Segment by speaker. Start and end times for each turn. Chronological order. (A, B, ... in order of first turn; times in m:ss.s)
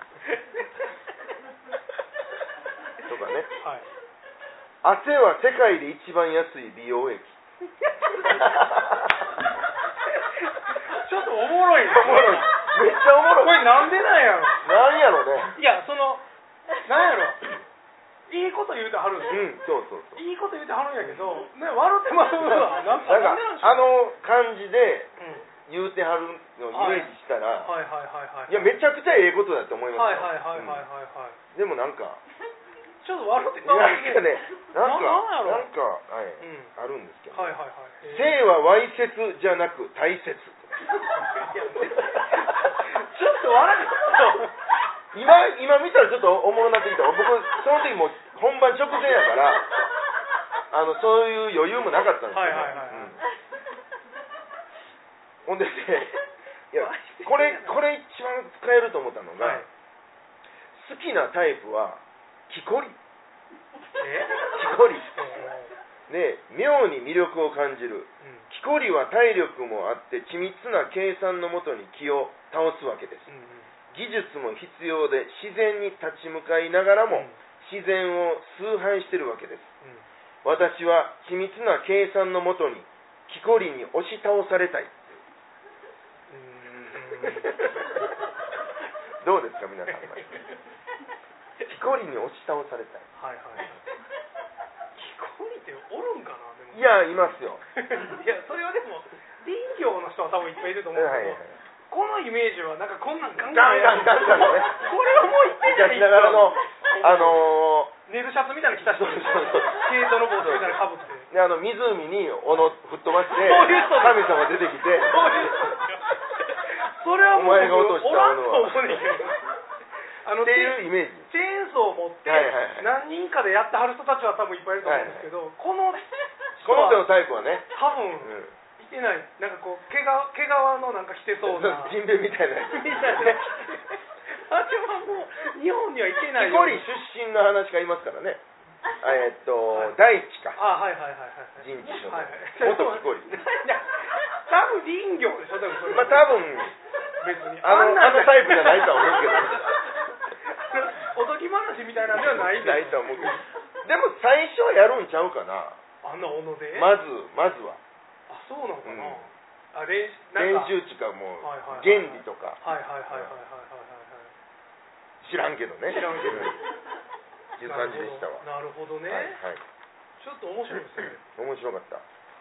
0:00.2-0:00.7 A
0:03.0-0:03.5 B
0:03.6-0:03.9 A
0:04.8-0:07.4 B
0:08.0-0:08.4 A
0:08.1-0:09.3 B
0:10.2-0:12.7 A
0:11.8-0:14.0 B
0:13.4-0:14.6 A
0:14.6-0:15.6 B
0:15.5-0:16.2 A
0:16.8-0:17.5 A
0:18.3-0:19.5 A
0:19.3-0:20.2 B
0:20.2-0:24.0 A
0:22.5-0:25.1 B
0:25.2-0:25.5 A
0:25.7-0:27.8 B
0:26.7-0:27.1 A
0:27.6-0:28.7 A
0:28.5-0:30.9 B
0:30.0-0:31.4 A
0:31.5-0:32.2 B
0:33.0-0:35.7 A
0:33.6-0:37.6 B
0:36.4-0:36.7 A
0:37.3-0:38.5 A
0:38.1-0:41.0 B
0:41.0-0:44.7 A
0:41.9-0:42.7 B
0:45.1-0:49.7 B
0:50.7-0:53.2 B
0:52.3-0:53.2 A
0:55.5-0:56.1 B
0:56.7-0:59.7 B
0:56.8-0:57.8 A
0:59.4-0:59.7 A
1:00.7-1:03.0 B
1:04.0-1:05.7 A
1:04.4-1:05.2 B
1:06.1-1:13.3 B
1:08.2-1:08.5 A
1:13.3-1:13.7 A
1:13.9-1:19.8 B
1:17.1-1:17.4 A
1:20.4-1:25.2 B
1:26.3-1:27.9 A
1:27.2-1:28.1 B
1:29.2-1:30.5 B
1:29.9-1:30.6 A
1:31.6-1:33.1 B
1:33.2-1:33.8 A
1:34.9-1:37.0 A
1:36.7-1:37.6 B
1:37.8-1:51.3 A
1:40.9-1:41.6 B
1:43.5-1:44.8 B
1:45.6-1:47.9 B
1:48.8-1:55.9 B
1:52.5-1:59.6 A
1:57.3-1:59.2 B
2:00.2-2:07.1 A
2:00.4-2:01.3 B
2:02.3-2:02.9 B
2:04.8-2:05.3 B
2:06.6-2:07.7 B
2:07.7-2:12.0 A
2:08.2-2:08.6 B
2:11.4-2:13.7 B
2:12.7-2:16.9 A
2:16.3-2:20.6 B
2:19.7-2:20.0 A
2:20.6-2:26.6 A
2:21.6-2:23.4 B
2:25.9-2:26.8 B
2:27.1-2:33.5 A
2:27.6-2:29.9 B
2:32.1-2:35.8 B
2:36.0-2:36.9 A
2:36.7-2:37.8 B
2:38.3-2:40.7 A
2:38.8-2:39.3 B
2:40.4-2:43.4 B
2:41.4-2:44.3 A
2:45.2-2:46.6 B
2:45.9-2:46.6 A
2:47.6-2:48.5 B
2:47.6-2:49.4 A
2:49.1-2:49.6 B
2:50.2-2:51.2 A
2:51.2-2:52.0 B